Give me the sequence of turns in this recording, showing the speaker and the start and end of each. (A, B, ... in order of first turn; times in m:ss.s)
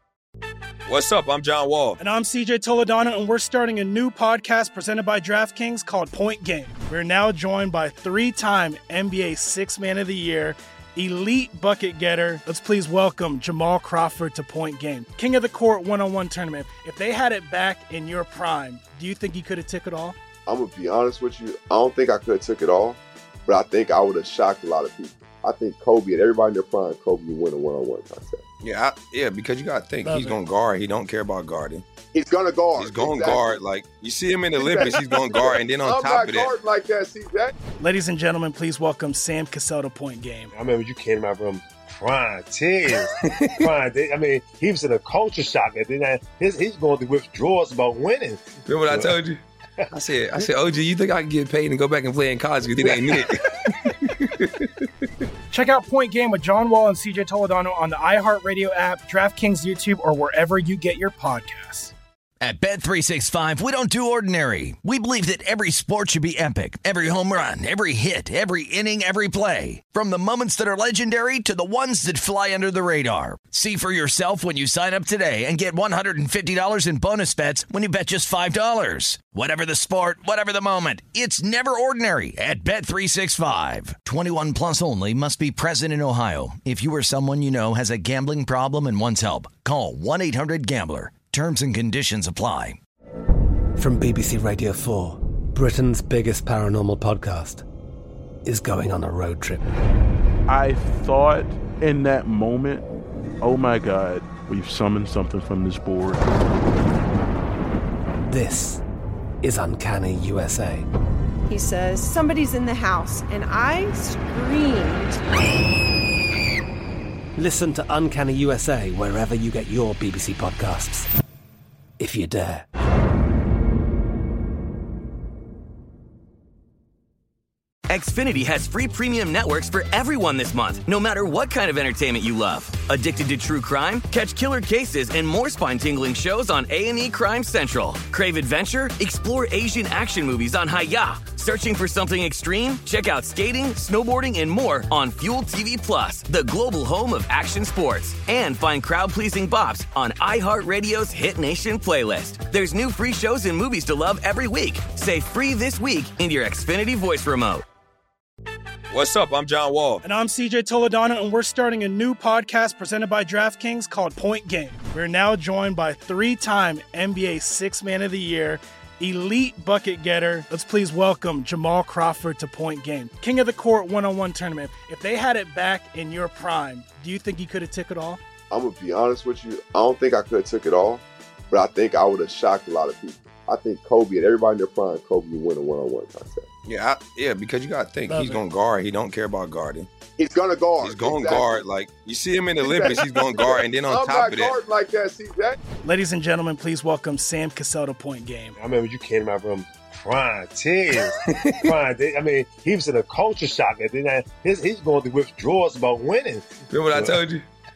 0:00.9-0:02.0 A
0:02.0-0:20.2 B
0:20.4-0:28.4 C
0:28.6-0:31.8 A
0:32.1-0:33.5 C
0:32.8-0:36.5 A
0:34.6-0:37.5 C
0:37.8-0:40.5 B
0:40.5-0:49.1 D
0:43.3-0:43.6 A
0:48.7-0:49.4 A
0:49.9-0:53.4 A
0:54.0-0:54.7 A
0:55.5-1:01.9 B
1:02.4-1:32.8 E
1:33.8-1:37.6 F
1:38.4-1:39.6 F
1:40.5-1:42.9 G
1:43.4-1:46.2 G
1:48.3-1:48.8 F
1:49.4-1:50.9 F
1:51.5-1:55.2 H
1:57.4-2:01.1 F
2:02.0-2:02.6 F
2:07.9-2:37.6 I
2:38.9-2:40.0 A
2:40.0-2:58.2 B
2:58.5-3:06.4 C
3:06.6-3:09.9 A
3:10.2-3:11.6 C
3:10.8-3:14.6 A
3:12.6-3:15.6 C
3:15.8-3:18.6 B
3:18.6-3:27.2 D
3:21.3-3:21.7 A
3:26.7-3:27.4 A